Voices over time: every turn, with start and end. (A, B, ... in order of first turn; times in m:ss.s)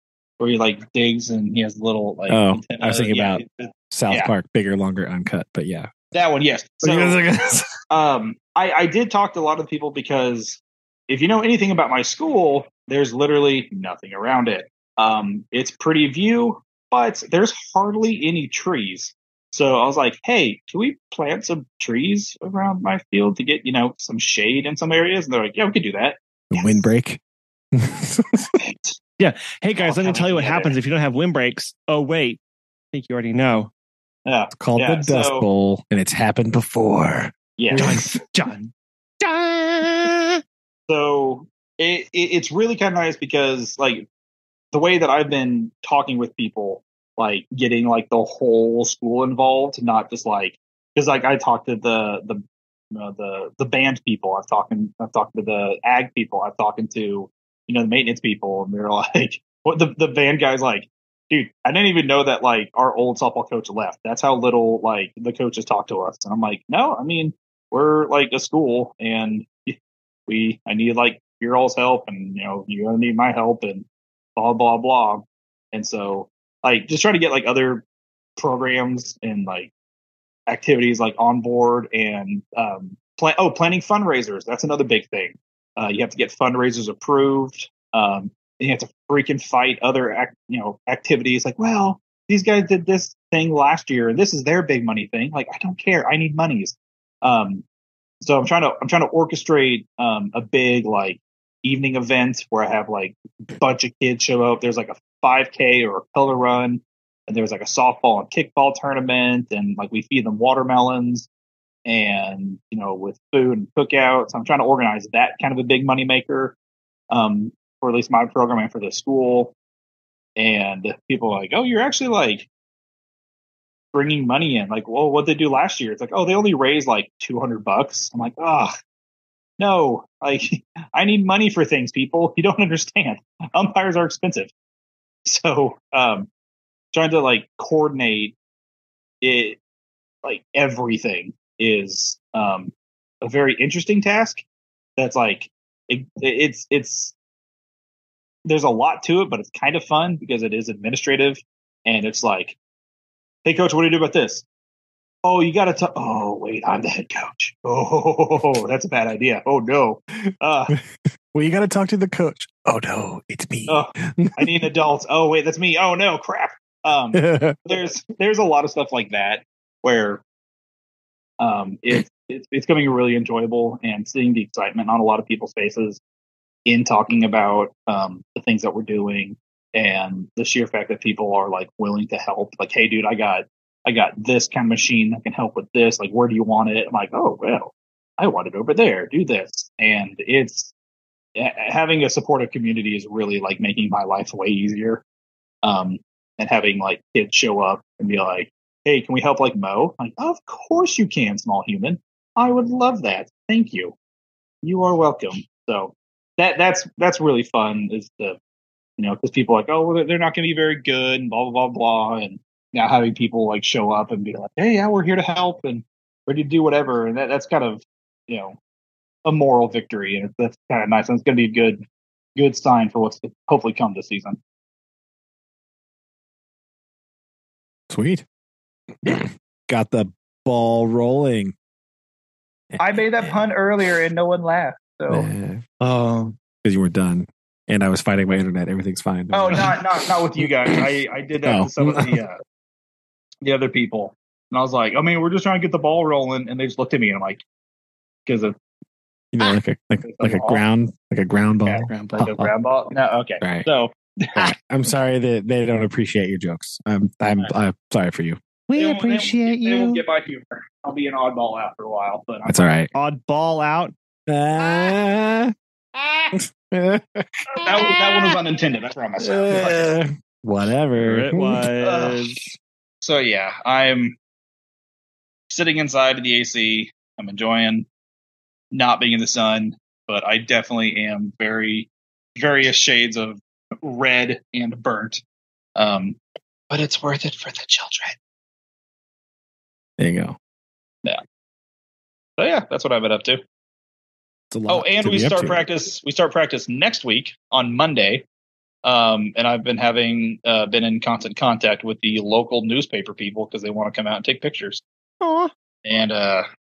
0:00.4-0:04.3 A
0:02.3-0:05.9 B
0:06.1-0:07.2 A
0:06.8-0:07.7 B
0:07.9-0:26.8 A
0:26.5-0:27.2 B
0:27.7-0:28.5 B
0:28.6-0:28.9 A
0:29.2-0:32.4 C
0:29.8-0:30.8 A
0:32.9-0:33.7 C
0:34.3-0:35.5 A
0:34.5-0:38.0 B
0:37.6-0:38.0 A
0:37.8-0:40.4 C
0:40.9-0:44.1 A
0:44.7-0:52.4 A
0:52.9-1:09.8 A
1:10.3-1:17.8 A
1:18.4-1:19.7 A
1:20.5-1:37.6 A
1:38.2-1:51.3 A
1:51.9-1:56.6 A
1:57.1-1:59.5 A
2:00.4-2:02.5 A
2:03.9-2:08.7 A
2:09.6-2:14.5 A
2:15.3-2:16.3 A
2:16.9-2:18.4 A
2:19.2-2:19.6 A
2:20.2-2:24.4 A
2:25.0-2:27.1 A
2:28.4-2:32.6 A
2:33.4-2:34.4 A
2:35.2-2:40.8 A
2:41.3-2:44.6 B
2:43.7-2:50.2 A
2:47.1-2:47.6 B
2:51.4-2:56.0 A
2:56.7-3:10.7 A
3:11.4-3:15.0 A
3:15.6-3:23.9 A
3:24.6-3:28.4 A
3:29.0-3:38.6 A
3:39.2-3:41.8 A
3:42.4-3:44.4 A
3:47.9-3:48.2 B
3:49.0-3:51.6 B
3:52.7-3:53.4 B
3:52.8-3:55.3 A
3:55.1-3:55.6 B
3:55.8-3:56.4 C
3:56.6-3:59.8 B
3:59.3-4:02.4 A
4:00.4-4:00.8 B
4:01.4-4:02.2 B
4:03.4-4:07.4 A
4:08.3-4:08.6 A
4:09.3-4:12.5 B
4:10.0-4:10.6 A
4:11.7-4:14.5 A
4:13.4-4:13.7 B
4:14.4-4:18.4 B
4:18.7-4:20.0 C
4:18.8-4:22.7 A
4:22.5-4:22.9 B
4:22.9-4:23.9 C
4:24.3-4:25.5 B
4:26.0-4:26.3 A
4:26.4-4:28.4 B
4:27.6-4:30.0 A
4:29.2-4:31.7 B
4:31.0-4:32.5 C
4:31.8-4:32.2 A
4:33.0-4:34.2 A
4:35.5-4:37.9 A
4:38.7-4:45.2 A
4:45.8-4:46.2 A
4:46.7-4:48.2 A
4:50.0-4:50.4 B
4:52.4-4:53.4 A
4:54.5-4:55.6 B
4:54.7-4:58.2 A
4:58.8-5:04.8 A
5:05.2-5:05.5 C
5:05.8-5:06.5 A